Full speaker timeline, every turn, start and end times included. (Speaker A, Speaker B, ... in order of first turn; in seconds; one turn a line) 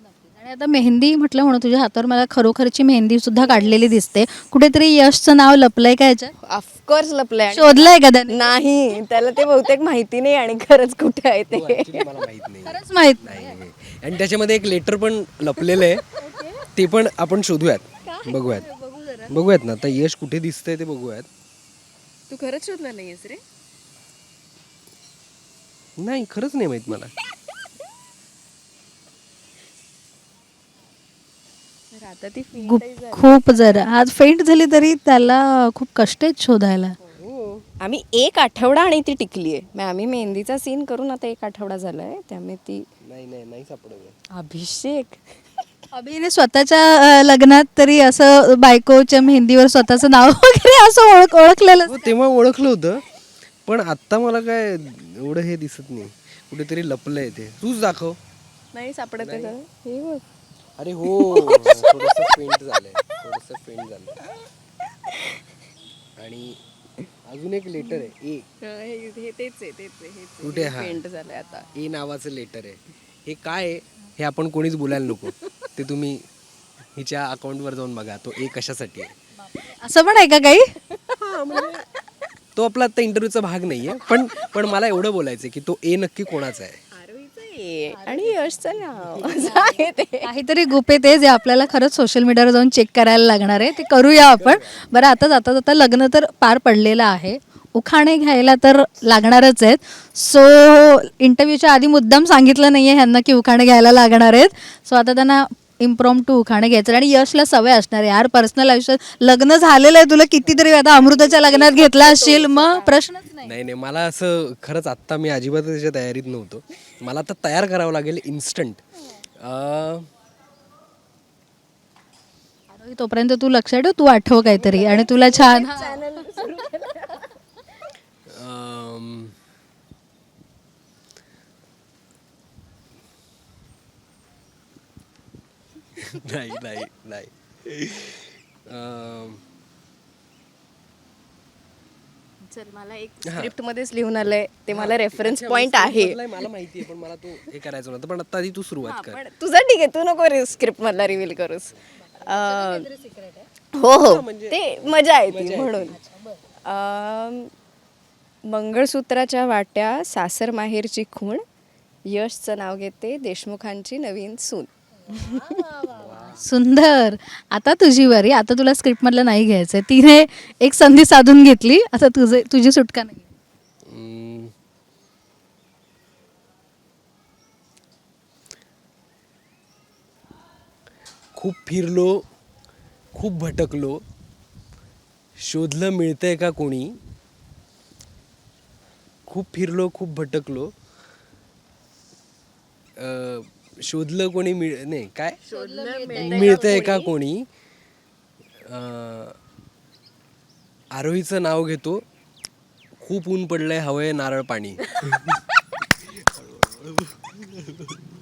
Speaker A: 0.2-6.3
Speaker B: 3.3-4.0
Speaker B: 6.4-12.1
Speaker A: 7.5-8.5
Speaker C: 11.5-16.0
Speaker A: 12.6-13.3
Speaker B: 15.8-16.7
Speaker C: 16.7-18.7
Speaker B: 18.1-19.3
Speaker C: 19.3-21.3
Speaker B: 22.3-23.4
Speaker C: 26.0-27.1
Speaker B: 31.9-33.4
Speaker A: 32.6-37.0
Speaker C: 37.2-37.6
Speaker B: 37.8-42.9
Speaker C: 43.0-44.2
Speaker B: 44.3-45.6
Speaker A: 45.9-52.0
Speaker C: 51.9-53.0
Speaker C: 53.6-58.2
Speaker B: 58.7-60.2
Speaker C: 59.2-59.5
Speaker C: 60.8-64.2
Speaker B: 61.0-62.4
Speaker B: 65.1-65.4
Speaker C: 66.2-66.6
Speaker C: 67.2-68.5
Speaker B: 67.8-68.1
Speaker B: 68.6-71.7
Speaker C: 70.4-71.0
Speaker C: 71.7-76.2
Speaker C: 76.9-79.1
Speaker A: 79.4-80.7
Speaker B: 80.9-81.8
Speaker C: 81.2-81.8
Speaker C: 82.5-86.8
Speaker B: 84.0-84.8
Speaker B: 86.9-90.3
Speaker A: 88.0-88.3
Speaker A: 89.4-113.5
Speaker C: 94.4-94.9
Speaker B: 110.4-113.0
Speaker C: 113.4-118.8
Speaker C: 119.4-120.1
Speaker A: 122.7-126.0
Speaker B: 124.4-127.4
Speaker C: 128.3-129.3
Speaker C: 136.0-139.4
Speaker B: 142.4-146.2
Speaker C: 143.2-143.5
Speaker C: 144.7-149.2
Speaker B: 148.8-152.9
Speaker A: 152.2-153.5
Speaker B: 153.7-156.0
Speaker C: 153.9-156.0
Speaker A: 155.9-156.4
Speaker B: 156.6-157.5
Speaker B: 158.4-161.4
Speaker B: 162.1-165.8
Speaker A: 165.1-173.3
Speaker C: 165.9-166.4
Speaker C: 173.9-174.5
Speaker C: 181.3-182.2
Speaker C: 183.1-184.0
Speaker C: 185.4-187.0
Speaker C: 189.3-190.7
Speaker C: 193.0-195.4
Speaker B: 195.5-197.1
Speaker A: 195.5-197.0
Speaker C: 196.1-197.5
Speaker C: 198.6-199.4
Speaker C: 200.9-202.0
Speaker C: 203.0-205.4
Speaker C: 206.1-208.0